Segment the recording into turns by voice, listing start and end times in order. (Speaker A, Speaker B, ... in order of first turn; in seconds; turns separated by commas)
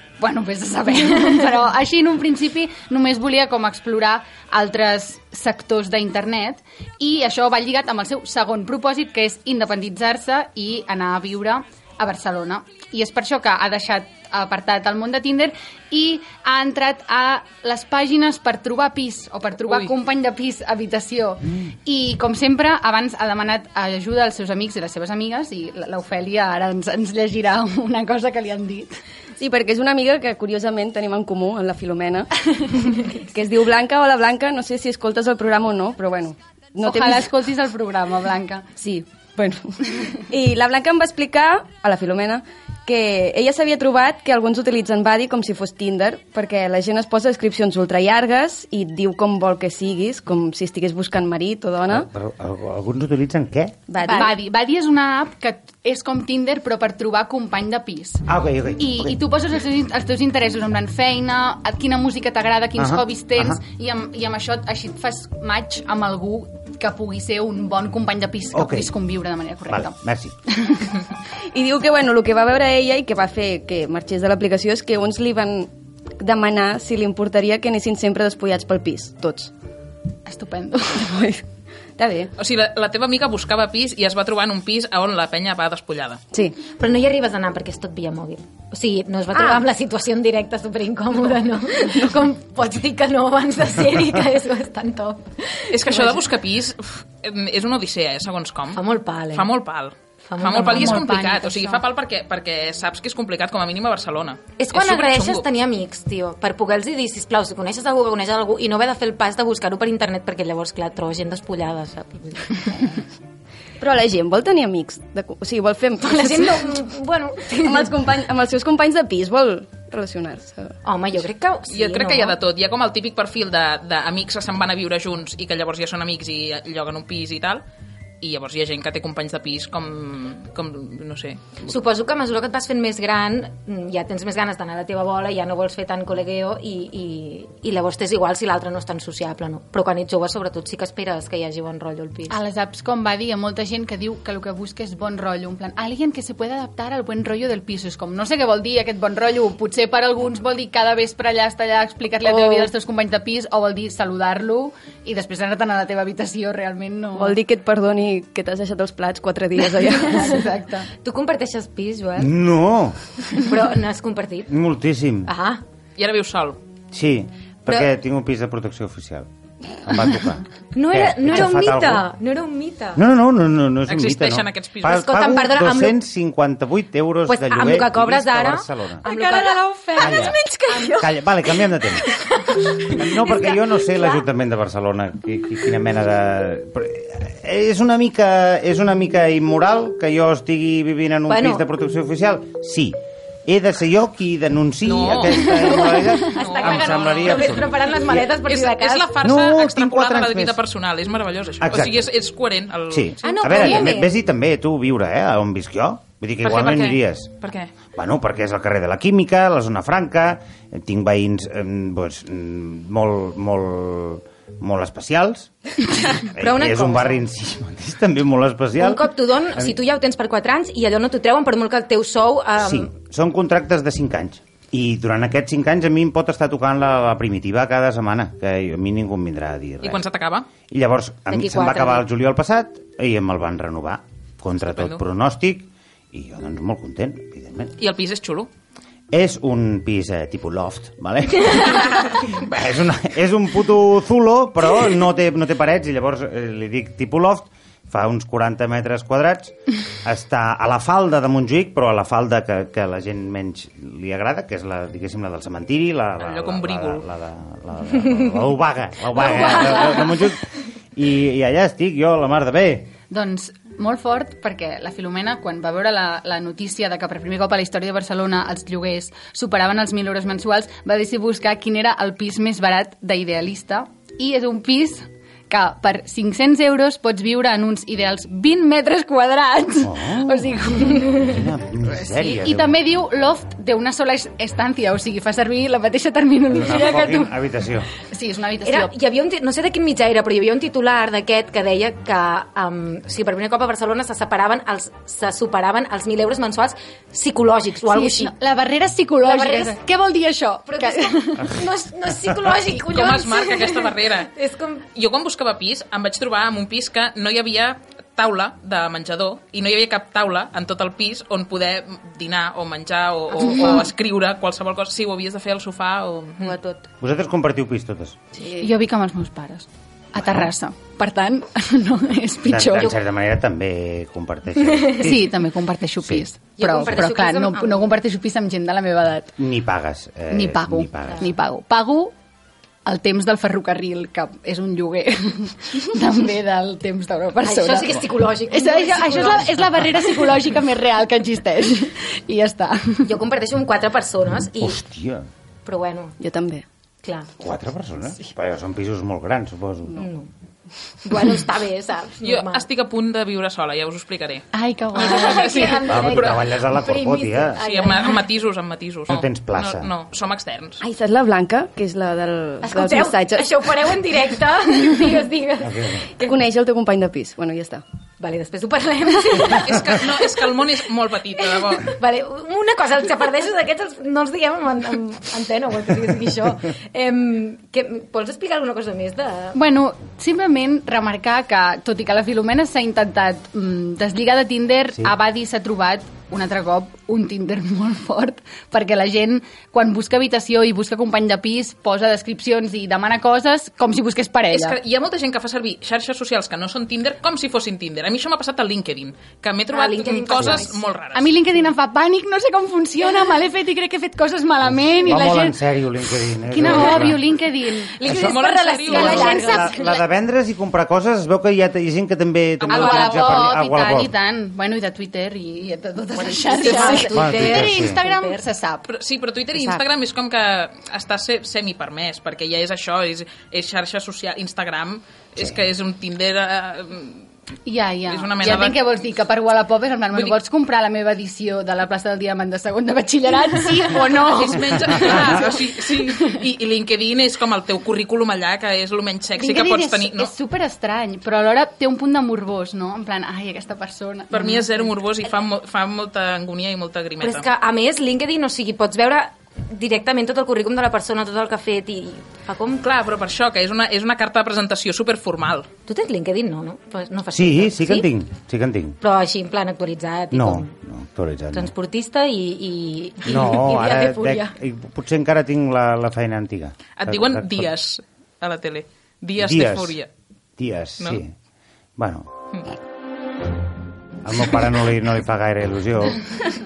Speaker A: 0.2-29.0, Speaker B: 29.4-37.3, Speaker A: 36.8-38.7, Speaker B: 38.8-52.1, Speaker C: 51.9-53.8, Speaker B: 53.9-54.4, Speaker D: 54.0-54.4, Speaker A: 54.1-58.2, Speaker C: 58.3-59.2, Speaker A: 58.8-70.0, Speaker C: 62.8-63.6, Speaker C: 68.5-68.9, Speaker C: 69.7-70.3, Speaker A: 70.5-71.0, Speaker B: 71.5-79.5, Speaker A: 80.3-81.2, Speaker B: 81.0-81.4, Speaker B: 82.0-82.3, Speaker E: 82.4-86.2, Speaker D: 86.8-96.1, Speaker B: 89.3-89.7, Speaker E: 95.7-105.5, Speaker D: 98.7-99.5, Speaker D: 100.3-101.1, Speaker A: 100.7-101.8, Speaker D: 104.6-113.0, Speaker B: 113.8-116.8, Speaker D: 116.0-118.0, Speaker B: 117.5-120.8, Speaker D: 120.8-122.4, Speaker E: 121.7-127.6, Speaker E: 128.2-131.4, Speaker D: 131.7-142.4, Speaker A: 142.3-157.4, Speaker B: 152.3-152.7, Speaker B: 157.2-160.5, Speaker D: 160.1-160.4, Speaker A: 160.2-160.9, Speaker D: 160.9-162.3, Speaker C: 162.2-163.0, Speaker D: 163.4-164.5, Speaker C: 164.5-165.3, Speaker D: 165.3-165.6, Speaker E: 166.0-166.6, Speaker C: 166.9-169.3, Speaker C: 169.8-172.1, Speaker D: 170.7-173.0, Speaker C: 172.9-179.1, Speaker E: 173.9-175.0, Speaker D: 174.9-176.0, Speaker D: 177.3-181.1, Speaker B: 179.1-180.9, Speaker A: 179.3-179.6, Speaker C: 180.0-180.4, Speaker C: 180.9-182.1, Speaker D: 182.0-184.2, Speaker C: 182.8-198.3, Speaker D: 191.3-191.7, Speaker E: 194.8-197.8, Speaker D: 195.7-199.1, Speaker E: 198.4-203.7, Speaker C: 199.2-200.6, Speaker C: 201.6-202.1, Speaker C: 202.9-207.3, Speaker D: 203.2-204.1, Speaker E: 206.4-207.7, Speaker C: 207.9-219.8, Speaker D: 216.3-217.2, Speaker D: 218.8-222.9, Speaker C: 222.6-230.0, Speaker E: 229.8-230.5, Speaker C: 230.7-237.8, Speaker D: 231.3-232.1, Speaker E: 234.7-235.0, Speaker E: 237.8-238.5, Speaker C: 239.1-262.9, Speaker E: 256.2-257.1, Speaker D: 259.4-260.1, Speaker A: 263.1-281.2, Speaker C: 279.8-282.8, Speaker A: 282.1-287.3, Speaker C: 286.5-287.9, Speaker A: 288.0-288.9, Speaker D: 288.6-298.3, Speaker A: 297.9-301.5, Speaker D: 299.2-299.8, Speaker D: 300.7-304.8, Speaker E: 302.7-304.3, Speaker E: 304.9-316.6, Speaker D: 313.4-313.9, Speaker A: 313.5-313.9, Speaker D: 316.4-316.8, Speaker C: 317.0-318.2, Speaker A: 318.5-322.9, Speaker C: 320.2-320.5, Speaker C: 322.5-325.3, Speaker A: 324.9-329.4, Speaker D: 326.6-327.9, Speaker C: 329.4-331.3, Speaker A: 330.3-332.1, Speaker A: 332.9-343.1, Speaker D: 337.4-339.8, Speaker D: 343.0-344.8, Speaker C: 344.6-345.3, Speaker D: 345.7-346.1, Speaker B: 346.2-346.6, Speaker D: 347.0-347.3, Speaker C: 347.4-350.0, Speaker D: 350.0-350.3, Speaker D: 351.0-352.7, Speaker E: 352.2-356.5, Speaker A: 354.5-355.9, Speaker D: 354.9-358.3, Speaker C: 355.8-357.6, Speaker E: 357.6-360.8, Speaker C: 359.1-359.9, Speaker B: 360.8-363.5, Speaker D: 362.6-366.4, Speaker C: 365.6-366.1, Speaker B: 366.2-367.8, Speaker D: 368.2-370.1, Speaker E: 369.4-371.9, Speaker D: 371.6-379.6, Speaker A: 379.5-394.8, Speaker E: 394.5-401.4, Speaker D: 399.7-400.8, Speaker C: 400.4-400.6, Speaker A: 401.1-405.6, Speaker C: 404.7-407.4, Speaker A: 406.4-408.1, Speaker D: 407.9-410.0, Speaker C: 408.0-408.4, Speaker E: 408.0-409.4, Speaker A: 408.9-410.0, Speaker C: 408.9-414.1, Speaker A: 412.7-418.9, Speaker E: 412.7-413.3, Speaker D: 412.7-413.2, Speaker D: 416.5-418.4, Speaker C: 417.1-418.0, Speaker E: 418.9-427.3, Speaker B: 419.6-419.8, Speaker A: 427.7-436.4, Speaker E: 428.1-428.9, Speaker E: 430.1-430.4, Speaker E: 433.9-440.3, Speaker C: 435.0-435.4, Speaker A: 439.4-444.9, Speaker E: 444.3-447.5, Speaker D: 447.2-452.8, Speaker E: 452.8-455.7, Speaker D: 455.9-458.1, Speaker C: 457.3-459.0, Speaker D: 459.0-460.7, Speaker C: 460.3-461.7, Speaker D: 461.5-464.5, Speaker C: 463.3-467.7, Speaker E: 467.0-470.1, Speaker C: 469.4-470.0, Speaker C: 470.6-471.4, Speaker C: 472.0-472.3, Speaker C: 474.2-476.2